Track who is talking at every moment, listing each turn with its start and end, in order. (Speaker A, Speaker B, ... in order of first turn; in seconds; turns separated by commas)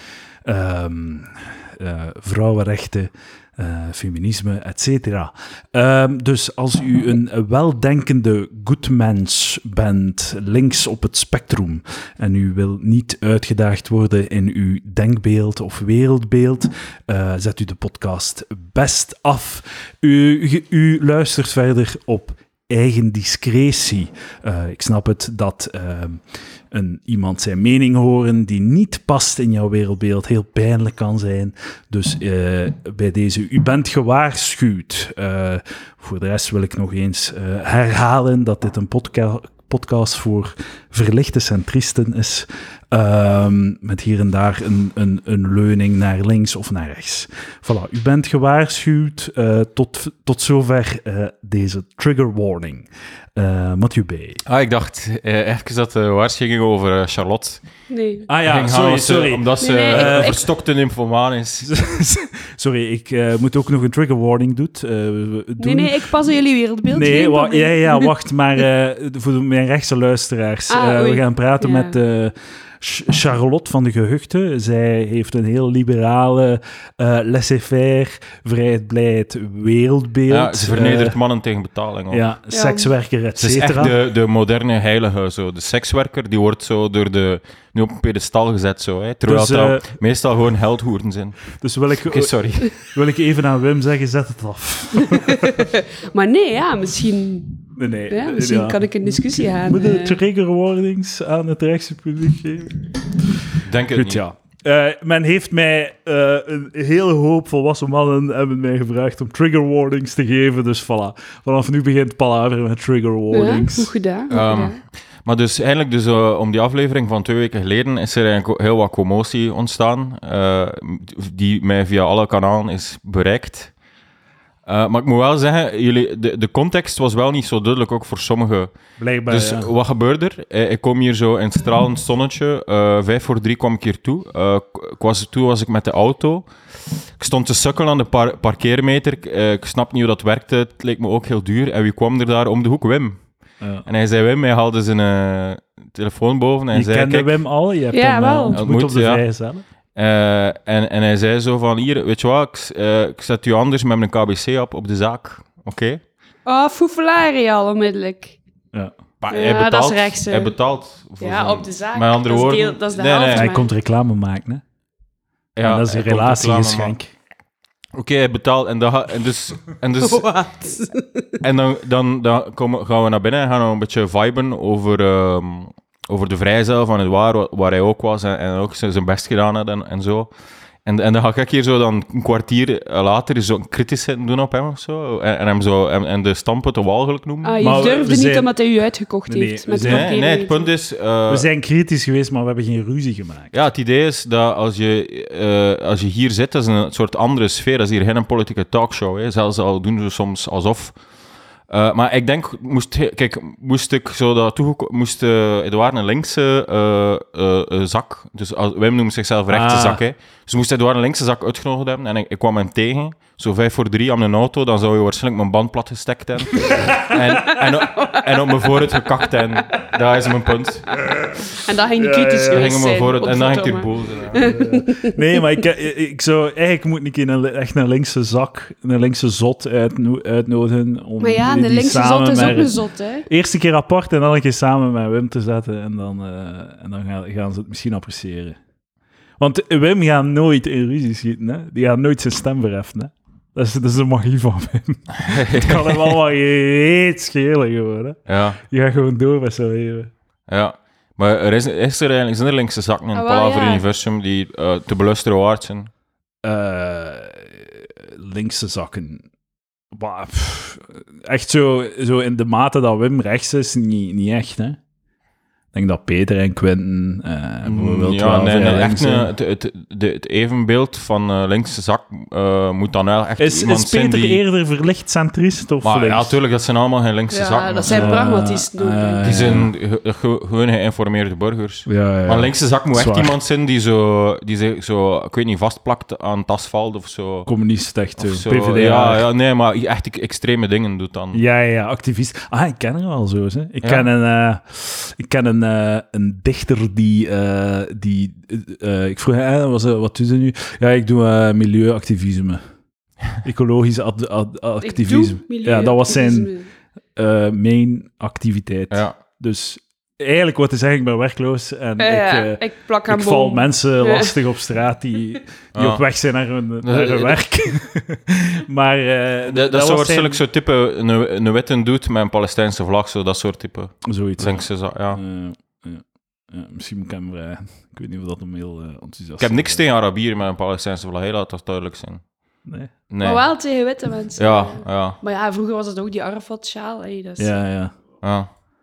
Speaker A: 0.5-54.4, Speaker B: 54.4-57.6, Speaker C: 57.9-58.3, Speaker A: 58.3-60.4, Speaker B: 58.4-61.7, Speaker C: 59.6-60.4, Speaker A: 61.6-66.0, Speaker C: 65.6-68.1, Speaker A: 66.9-81.2, Speaker C: 70.7-71.9, Speaker B: 80.3-82.2, Speaker A: 82.1-83.9, Speaker C: 82.5-82.9, Speaker B: 83.4-91.4, Speaker A: 89.2-89.9, Speaker A: 91.6-95.7, Speaker B: 92.0-92.7, Speaker C: 95.0-100.2, Speaker A: 97.7-113.9, Speaker B: 103.6-104.2, Speaker C: 113.3-114.8, Speaker B: 114.3-123.7, Speaker B: 124.7-128.7, Speaker A: 129.0-129.7, Speaker B: 129.3-143.2, Speaker A: 143.6-143.8, Speaker B: 143.8-147.3, Speaker A: 146.7-149.6, Speaker C: 147.9-148.6, Speaker B: 148.5-149.2, Speaker B: 149.9-156.0, Speaker C: 156.4-158.4, Speaker B: 159.2-163.5, Speaker C: 159.3-160.5, Speaker C: 161.2-163.7, Speaker A: 163.3-164.6, Speaker B: 165.6-166.9, Speaker A: 165.6-167.1, Speaker B: 167.9-170.3, Speaker C: 170.0-171.3, Speaker B: 171.4-180.3, Speaker B: 180.8-187.6, Speaker C: 187.4-190.7, Speaker A: 187.6-188.5, Speaker A: 189.3-190.1, Speaker B: 189.8-191.4, Speaker A: 191.3-193.5, Speaker B: 193.5-201.0, Speaker B: 201.7-220.9, Speaker A: 209.5-210.0, Speaker A: 216.6-217.1, Speaker C: 217.4-219.9, Speaker C: 221.5-225.4, Speaker A: 221.9-222.7, Speaker B: 222.5-224.4, Speaker A: 224.3-232.8, Speaker C: 231.2-233.2, Speaker A: 233.3-238.6, Speaker A: 239.4-250.1, Speaker B: 245.2-246.1, Speaker B: 248.3-248.6, Speaker B: 250.5-255.9, Speaker C: 253.1-253.8, Speaker A: 256.4-259.2, Speaker A: 259.9-264.8, Speaker A: 265.7-269.3, Speaker B: 267.6-274.4, Speaker A: 273.4-276.3, Speaker B: 275.8-278.1, Speaker C: 277.3-279.6, Speaker A: 277.9-279.7, Speaker B: 279.2-287.5, Speaker A: 281.9-283.3, Speaker A: 287.4-289.2, Speaker B: 288.2-291.4, Speaker A: 291.3-302.6, Speaker A: 303.4-306.5, Speaker C: 304.8-306.7, Speaker A: 307.1-320.4, Speaker B: 308.9-309.2, Speaker C: 312.0-314.3, Speaker B: 315.7-316.0, Speaker B: 316.8-317.4, Speaker B: 319.5-325.2, Speaker A: 324.0-329.8, Speaker B: 329.4-332.2, Speaker A: 332.7-332.9, Speaker B: 333.1-333.4, Speaker C: 333.2-337.6, Speaker B: 334.4-335.2, Speaker A: 337.4-337.9, Speaker B: 338.2-338.5